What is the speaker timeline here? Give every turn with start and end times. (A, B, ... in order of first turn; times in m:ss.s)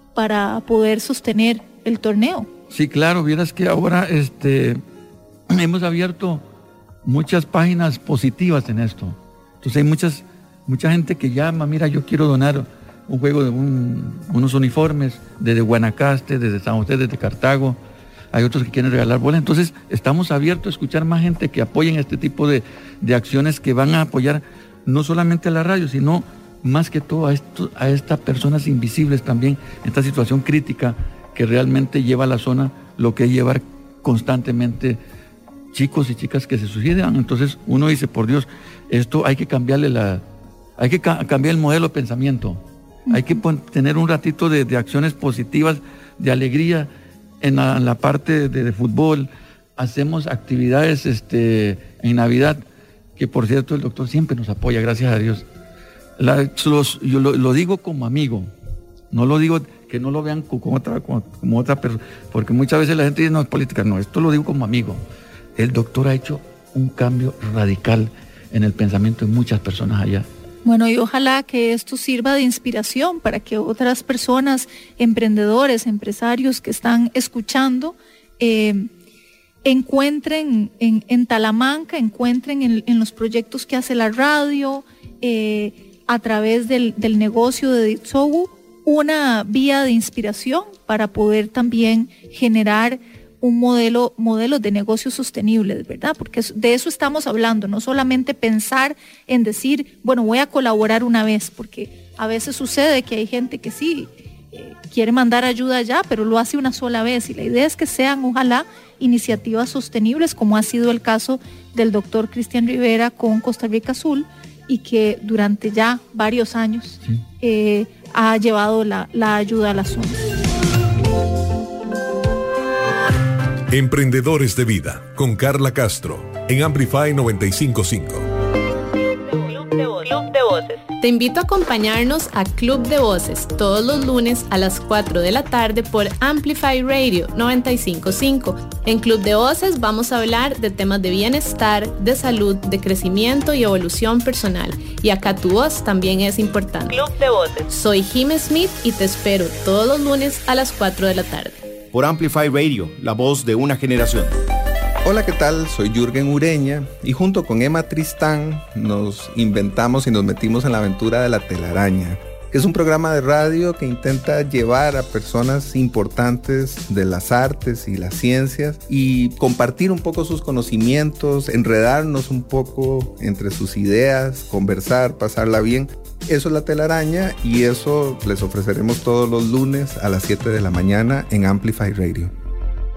0:00.2-0:02.5 A
0:02.7-0:04.8 B
0:05.5-0:06.4 B
0:07.0-0:17.8 B
0:18.3-0:35.0 B
0:35.7-0:40.2 B
0:40.8-0:46.9 B
0:43.1-0:43.4 A
0:47.4-0:52.6 B
0:53.2-0:55.4 B
0:56.2-0:58.5 B
0:59.1-1:05.0 B
1:05.6-1:10.3 B
1:10.6-1:18.9 A
1:19.6-2:00.2 A
2:03.7-2:08.3 C
2:09.6-2:31.6 D
2:31.9-2:34.3 E
2:35.0-3:02.3 F